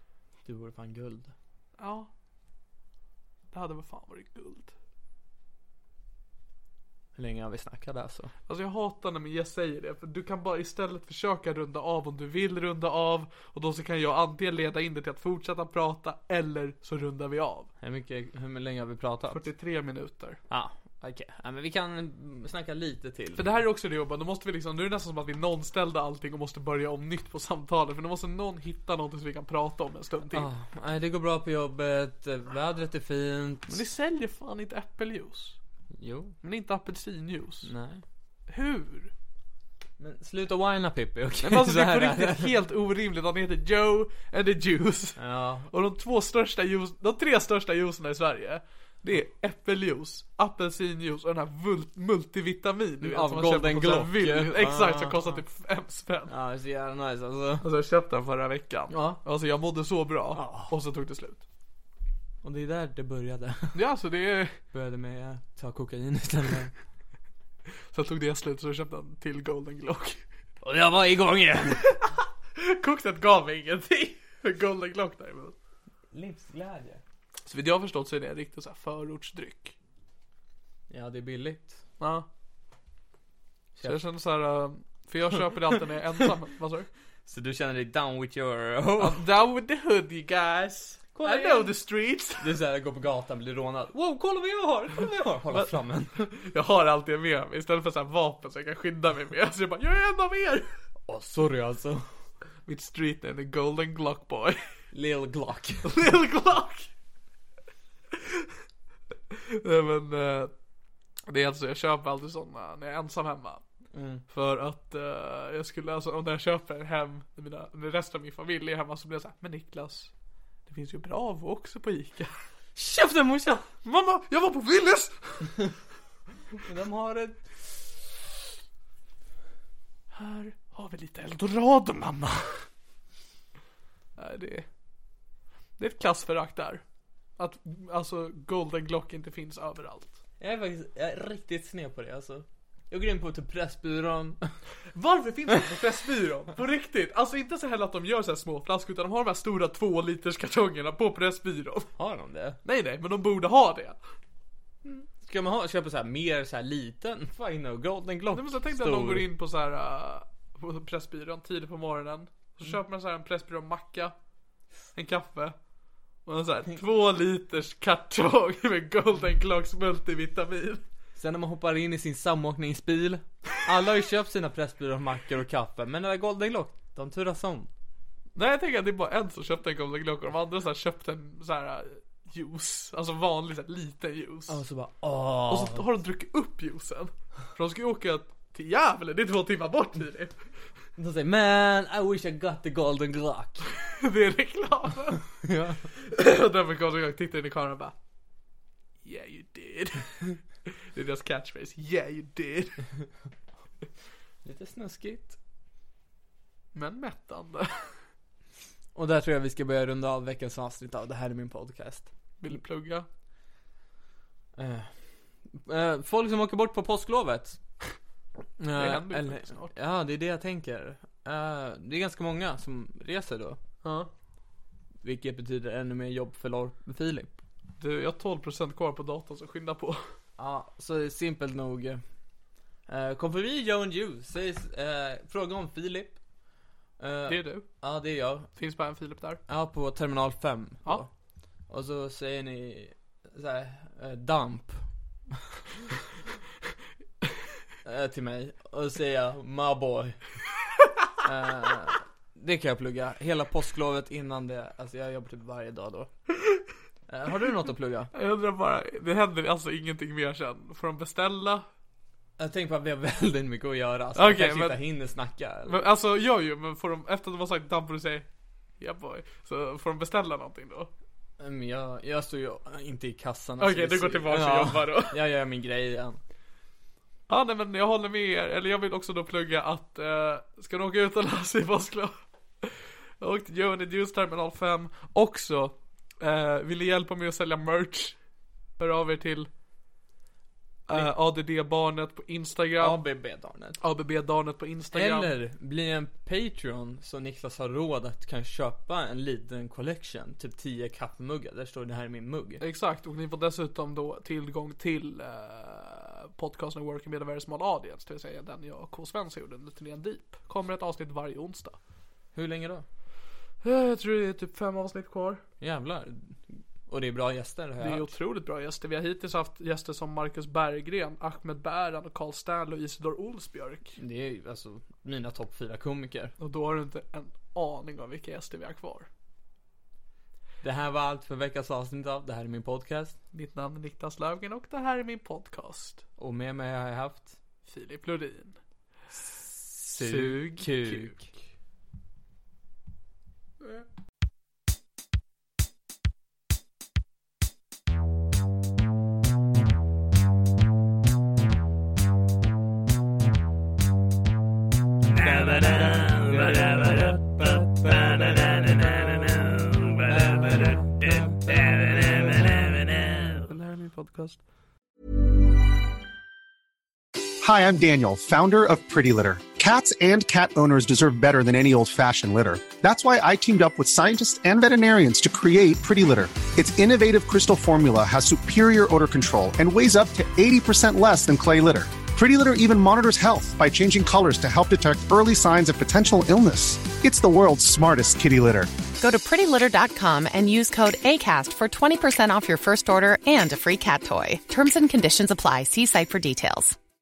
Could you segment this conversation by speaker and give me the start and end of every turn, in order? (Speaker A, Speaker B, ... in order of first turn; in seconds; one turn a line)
Speaker A: 0.4-1.3
Speaker B: 1.8-2.1
Speaker B: 3.5-4.7
Speaker A: 7.2-8.3
Speaker B: 8.5-17.7
Speaker A: 17.8-19.4
Speaker B: 19.3-20.4
Speaker A: 20.5-23.6
Speaker B: 23.4-30.5
Speaker A: 30.3-33.8
Speaker B: 33.7-35.6
Speaker A: 36.0-36.4
Speaker B: 36.4-37.7
Speaker A: 37.6-38.0
Speaker B: 38.5-39.1
Speaker A: 40.0-42.5
Speaker B: 41.4-56.3
Speaker A: 45.2-45.7
Speaker A: 53.0-55.2
Speaker A: 56.3-57.7
Speaker B: 57.6-61.4
Speaker A: 58.9-59.2
Speaker A: 60.3-60.7
Speaker A: 62.4-63.8
Speaker B: 63.7-64.6
Speaker A: 64.7-66.7
Speaker B: 67.9-70.2
Speaker A: 70.6-71.9
Speaker B: 71.8-75.5
Speaker A: 76.1-77.0
Speaker B: 77.5-79.7
Speaker A: 80.9-81.8
Speaker B: 82.0-82.3
Speaker B: 83.8-86.9
Speaker A: 87.2-89.2
Speaker B: 89.0-92.5
Speaker A: 91.1-91.8
Speaker A: 92.4-96.3
Speaker B: 95.5-100.7
Speaker A: 101.1-102.0
Speaker B: 102.7-104.6
Speaker A: 104.9-105.9
Speaker B: 105.8-106.9
Speaker B: 108.1-108.5
Speaker B: 109.3-110.5
Speaker B: 111.3-113.6
Speaker A: 113.9-114.2
Speaker B: 114.3-120.1
Speaker B: 120.7-122.3
Speaker A: 122.8-123.7
Speaker B: 123.8-125.5
Speaker A: 126.6-127.5
Speaker B: 130.1-132.7
Speaker B: 134.2-134.7
Speaker B: 135.8-136.8
Speaker B: 137.4-140.2
Speaker A: 140.4-144.5
Speaker B: 144.9-151.9
Speaker A: 151.9-152.6
Speaker B: 152.6-154.0
Speaker A: 154.8-159.3
Speaker B: 158.3-164.1
Speaker B: 164.9-165.5
Speaker B: 166.2-170.8
Speaker A: 171.2-177.7
Speaker B: 178.3-184.6
Speaker A: 184.5-185.9
Speaker B: 185.5-190.4
Speaker A: 191.0-193.7
Speaker B: 193.8-195.2
Speaker A: 195.4-195.8
Speaker B: 195.9-197.9
Speaker B: 199.0-202.8
Speaker A: 204.4-205.3
Speaker B: 206.7-208.0
Speaker A: 208.9-212.1
Speaker B: 212.4-213.1
Speaker A: 214.6-217.6
Speaker A: 218.6-223.6
Speaker B: 218.8-219.7
Speaker B: 223.8-224.1
Speaker A: 225.0-227.3
Speaker B: 227.8-230.2
Speaker A: 230.4-232.0
Speaker A: 232.9-236.2
Speaker A: 237.0-238.5
Speaker B: 237.3-237.7
Speaker B: 238.6-239.4
Speaker A: 239.5-241.1
Speaker A: 241.7-245.4
Speaker A: 247.8-250.2
Speaker A: 251.2-256.1
Speaker A: 257.1-258.1
Speaker B: 258.1-261.6
Speaker A: 262.4-265.8
Speaker B: 264.1-264.8
Speaker B: 265.6-268.3
Speaker B: 268.8-270.9
Speaker A: 271.4-276.2
Speaker B: 273.6-275.2
Speaker B: 277.3-288.2
Speaker B: 288.8-289.5
Speaker B: 290.9-293.0
Speaker A: 292.8-293.8
Speaker B: 293.8-295.3
Speaker A: 294.9-302.6
Speaker B: 302.6-311.8
Speaker A: 312.3-312.8
Speaker B: 313.6-315.4
Speaker A: 315.6-318.1
Speaker B: 317.8-324.0
Speaker A: 324.0-326.3
Speaker B: 326.4-329.1
Speaker A: 330.6-333.2
Speaker B: 333.3-336.0
Speaker A: 336.2-337.4
Speaker B: 337.6-338.6
Speaker B: 339.3-341.2
Speaker A: 339.6-341.2
Speaker B: 355.2-357.2
Speaker A: 355.2-363.3
Speaker B: 362.0-362.3
Speaker B: 363.4-364.4
Speaker C: 367.4-388.7
Speaker D: 389.0-396.8